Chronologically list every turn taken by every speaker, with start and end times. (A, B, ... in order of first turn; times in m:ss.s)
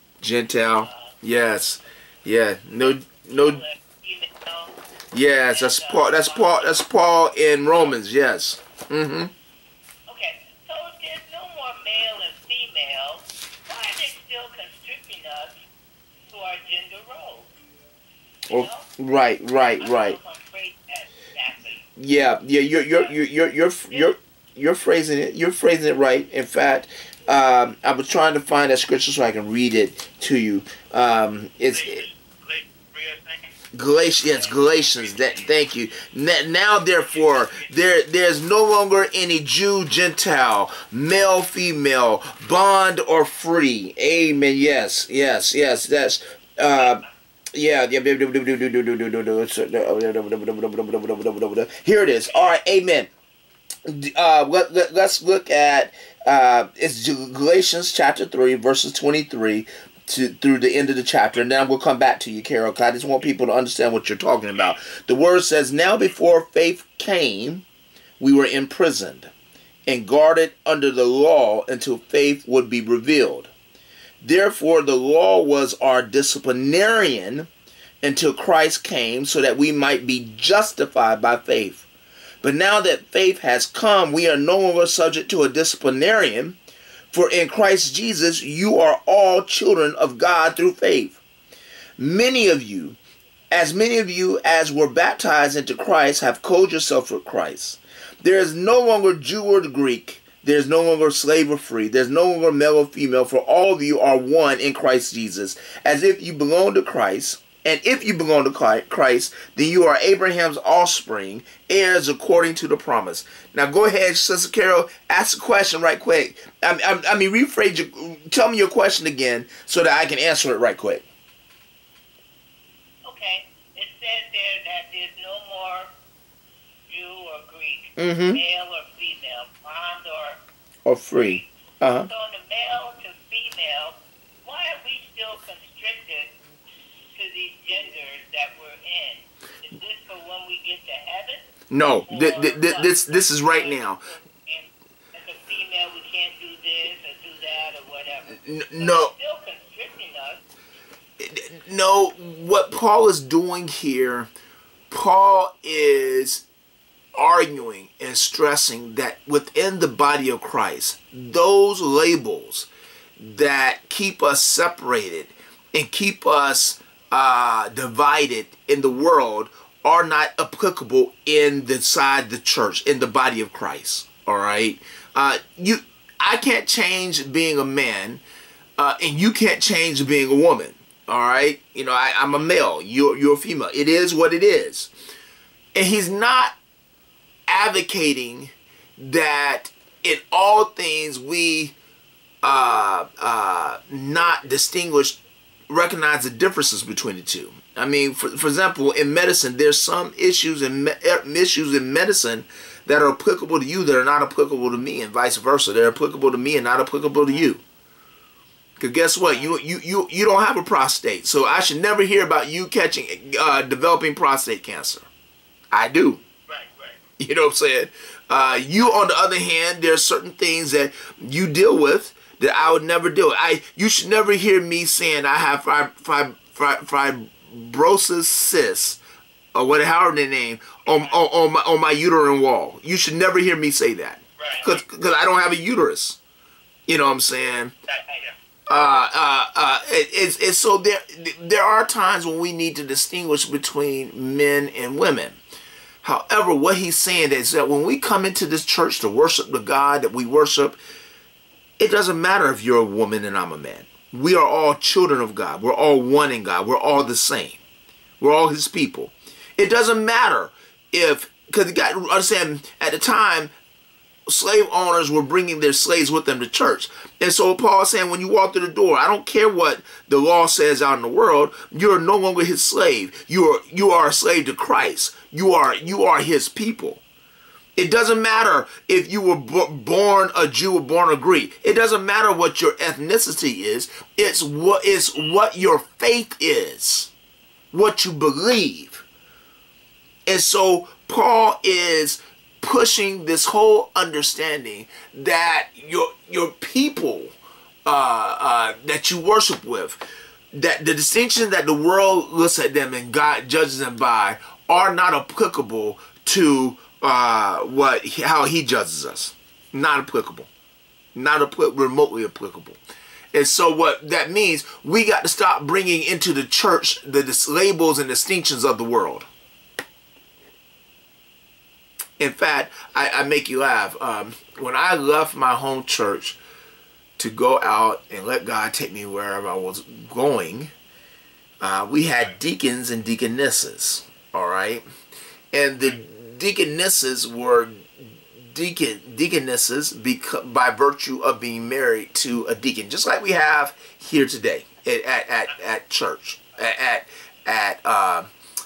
0:00.2-0:03.6 A
0:00.7-0:01.2 B
0:03.3-0:04.8 B
0:05.1-0:09.3 A
0:05.5-0:06.8 B
0:10.1-0:15.6 B
0:16.3-0:17.5 B
0:18.5-0:18.9 B
0:18.5-0:20.2 A
0:19.5-0:21.8 B
0:22.0-0:32.0 A
0:23.9-0:24.1 B
0:31.7-0:33.5 C
0:33.7-0:53.1 A
0:35.0-0:35.4 C
0:37.1-0:37.7 C
0:46.8-0:47.0 B
0:53.8-1:07.6 A
1:08.2-1:09.3 A
1:09.9-1:13.5 A
1:14.2-1:17.5 A
1:18.0-1:21.9 A
1:22.4-1:26.6 A
1:27.1-1:31.2 A
1:32.0-1:33.0 A
1:33.5-2:01.1 A
2:03.0-2:05.9 B
2:06.9-2:10.4 B
2:08.0-2:08.4 A
2:10.8-2:12.1 A
2:11.1-2:16.3 B
2:17.1-2:21.5 B
2:21.7-2:24.0 A
2:22.0-2:30.4 B
2:28.3-2:29.1 A
2:31.2-2:34.3 A
2:34.9-2:36.4 A
2:37.1-2:58.2 A
2:58.8-3:04.9 A
3:05.7-3:06.5 A
3:07.5-3:11.7 A
3:12.4-3:27.6 A
3:28.8-3:35.1 A
3:35.7-3:36.2 A
3:36.5-3:37.0 C
3:37.2-3:49.0 A
3:49.5-3:56.2 A
3:54.4-3:54.7 C
3:56.9-3:57.7 A
3:57.9-3:58.3 C
3:58.7-4:05.4 A
4:06.0-4:10.8 A
4:11.8-4:17.6 A
4:18.2-4:23.5 A
4:24.3-4:37.0 A
4:37.8-4:47.1 A
4:47.7-4:49.0 A
4:50.3-4:57.3 A
4:57.8-5:00.0 A
5:00.5-5:10.5 A
5:11.1-5:12.8 A
5:13.3-5:19.3 A
5:22.2-5:26.4 A
5:27.2-5:30.7 A
5:31.6-5:34.8 A
5:35.5-5:48.3 A